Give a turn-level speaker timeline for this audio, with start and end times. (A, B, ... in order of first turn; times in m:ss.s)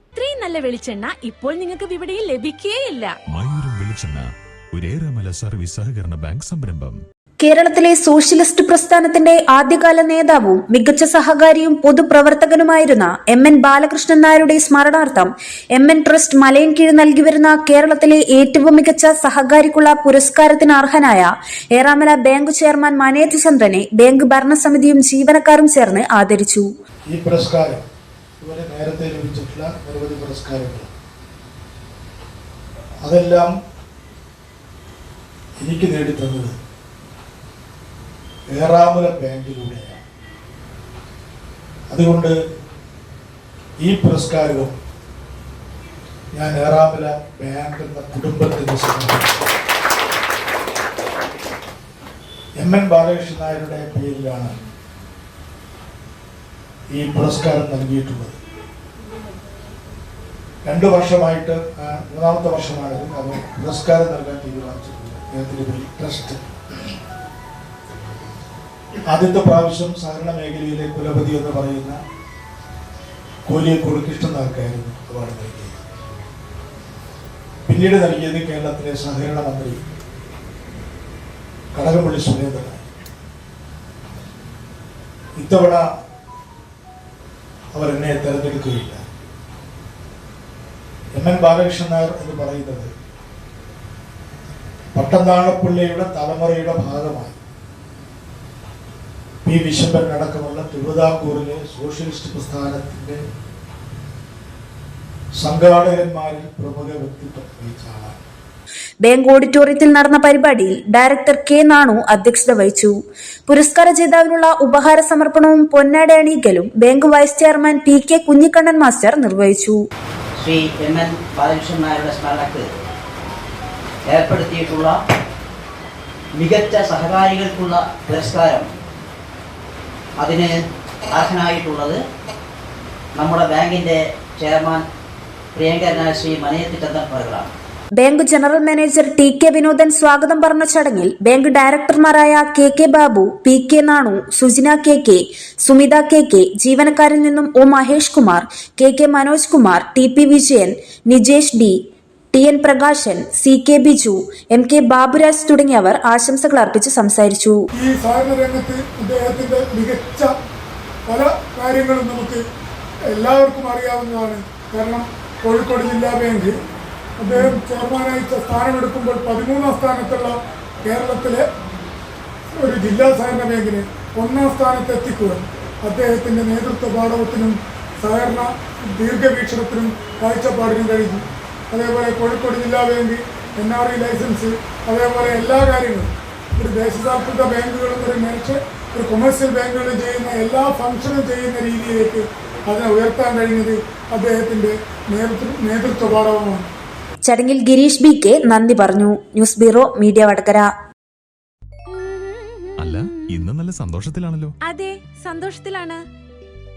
0:00.2-0:03.1 A
0:03.3-0:07.0 B
0:07.4-0:26.7 C
0:27.1-0:27.8 D
0:28.4-0:30.9 D
0:33.0-0:33.5 D
0:35.6-0:36.5 D
0:38.5-0:40.0 D
0:41.9-0:42.4 D
0:43.8-0:44.7 D
0:46.3-0:49.5 D
0:52.6-0:54.6 D
0:56.9-0:58.4 D
1:00.6-1:06.4 D
1:09.1-1:12.0 D
1:13.4-1:15.8 D
1:17.7-1:19.8 D
1:21.7-1:22.8 D
1:25.4-1:25.9 D
1:27.7-1:29.0 D
1:31.1-1:32.9 D
1:34.9-1:37.4 D
1:39.4-1:43.2 D
1:45.4-1:48.2 D
1:49.0-1:52.9 C
1:53.5-1:59.8 C
2:00.4-2:02.7 E
2:04.1-2:04.9 E
2:06.3-2:08.7 E
2:10.2-2:10.5 E
2:11.1-2:12.0 E
2:13.1-2:14.8 E
2:15.5-2:17.5 E
2:18.0-2:31.8 C
2:32.3-2:37.6 C
2:37.7-2:40.3 F
2:41.1-2:42.4 F
2:43.1-2:46.6 F
2:47.2-2:51.4 F
2:52.5-3:16.7 F
3:17.3-3:20.7 C
3:21.9-3:23.4 A
3:22.8-3:24.5 B
3:24.6-3:26.0 A